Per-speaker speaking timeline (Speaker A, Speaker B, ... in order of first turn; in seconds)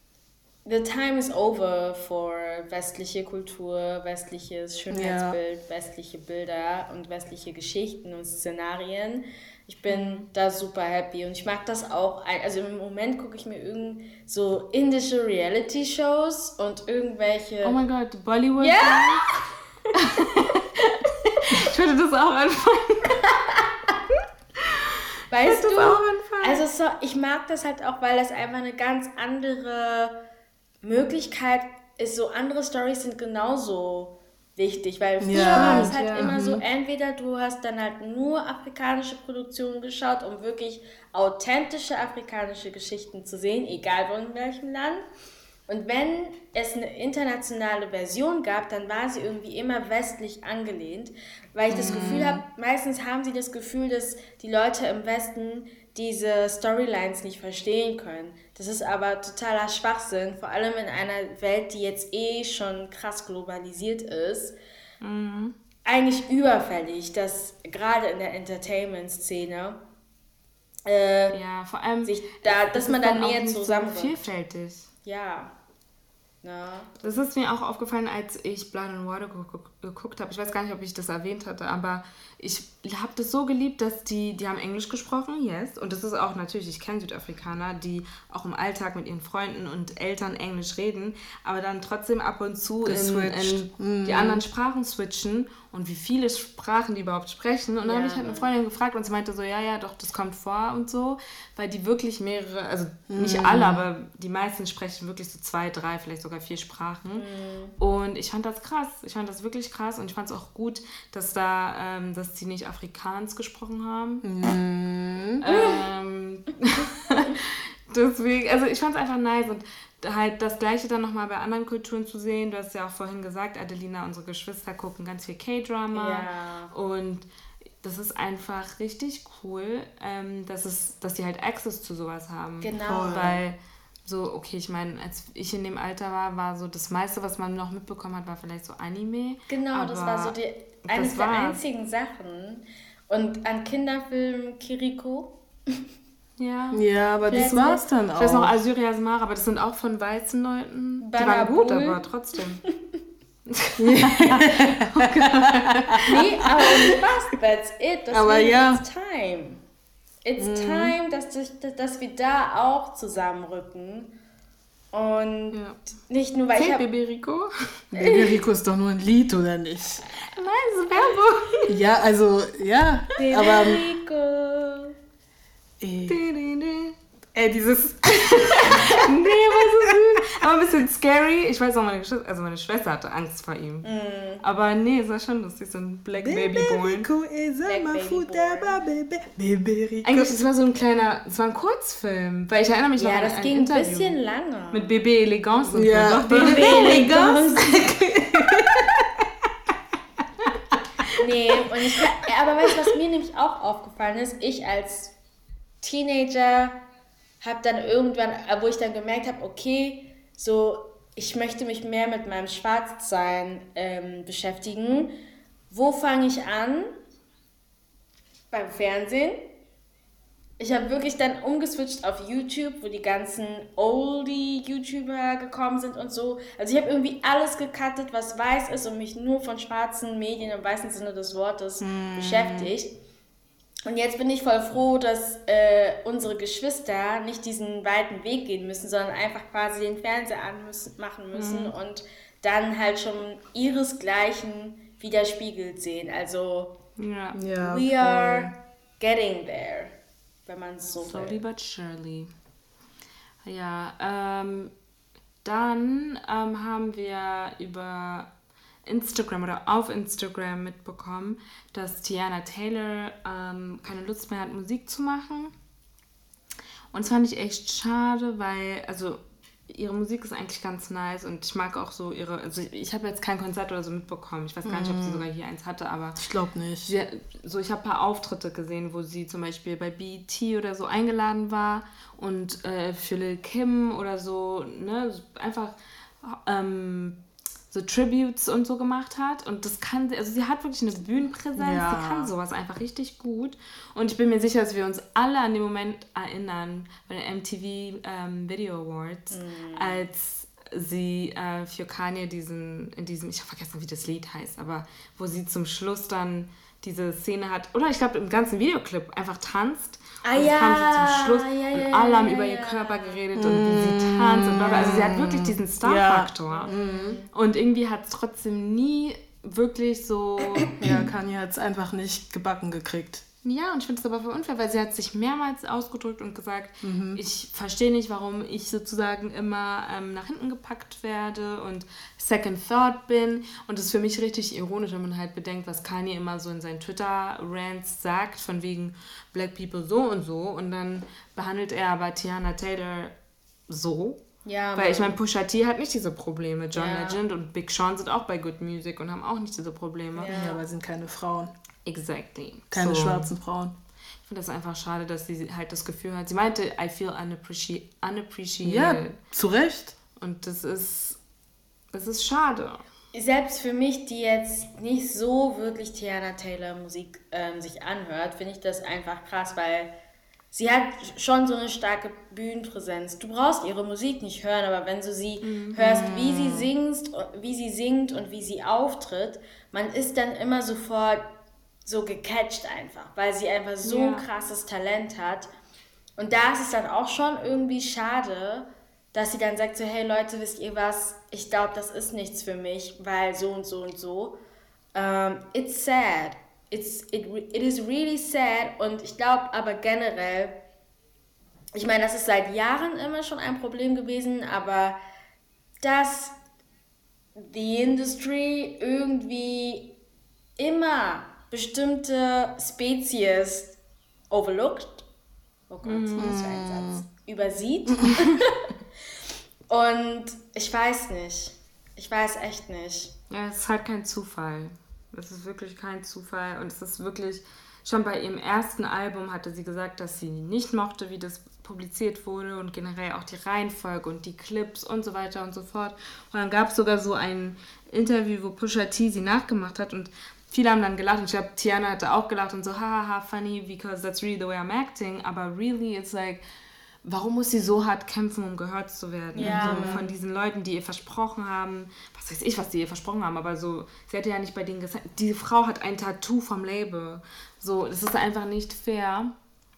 Speaker A: 0.7-17.8, 18.6-19.4, 23.3-23.9, 25.3-30.2, 30.8-45.0, 45.7-64.6, 65.9-69.8, 70.9-71.4, 72.0-74.3, 75.0-75.6, 76.4-76.9, 97.8-98.5, 107.2-107.8, 115.5-115.8, 125.9-126.7, 132.6-133.4, 139.5-145.8, 147.3-147.8, 151.0-152.0, 156.1-159.6, 160.2-164.2, 164.9-166.8, 167.9-168.4, 173.2-174.9, 183.8-184.4, 187.7-188.8, 193.0-194.9, 196.3-197.9, 201.1-205.2, 205.8-206.8, 207.4-215.2, 215.7-217.0, 218.5-219.6, 220.6-232.9, 233.9-246.8, 247.6-251.4, 299.3-300.0, 310.2-313.2, 314.6-315.1, 316.5-317.3, 344.4-345.2, 346.7-347.2, 350.2-350.6, 363.1-369.9, 370.5-385.5, 386.2-394.4, 394.9-400.6, 401.8-405.0, 405.8-406.4, 407.4-410.0, 410.6-413.8, 414.3-415.1, 415.7-418.6, 419.7-423.1, 449.4-450.1
Speaker B: 4.9-5.4, 35.2-36.6, 51.7-52.4, 92.8-94.4, 103.1-103.9, 114.2-115.4, 132.9-133.4, 146.7-148.6, 153.8-156.9, 158.1-158.8, 160.4-160.9, 167.9-170.0, 171.7-173.8, 175.8-176.2, 177.3-180.0, 186.2-190.4, 195.7-199.2, 231.8-232.7, 247.3-248.5, 274.6-275.3, 276.2-276.9, 291.6-292.3, 313.4-317.2, 320.8-323.2, 326.8-327.2, 350.3-351.5, 352.7-353.8, 358.6-360.0, 375.8-376.7, 416.2-417.0, 449.4-450.1
Speaker C: 9.9-10.3, 17.6-19.3, 19.9-23.3, 24.6-26.6, 35.3-36.4, 65.0-65.5, 71.3-74.9, 77.0-107.3, 107.8-114.2, 115.4-127.2, 127.8-141.6, 146.4-152.6, 153.5-156.2, 165.5-165.8, 166.5-167.5, 170.3-171.8, 176.1-177.0, 178.2-183.9, 184.4-187.1, 190.1-194.2, 194.7-197.4, 241.3-241.7, 247.0-247.4, 251.0-252.3, 253.4-254.7, 255.4-258.3, 258.9-265.5, 266.9-276.2, 276.9-316.8, 317.3-321.0, 323.4-343.1, 343.7-344.2, 344.8-350.4, 351.9-353.3, 354.3-359.2, 360.2-361.2, 361.9-362.8, 375.4-376.0, 383.8-384.2, 415.9-416.4, 423.3-446.4, 447.0-459.3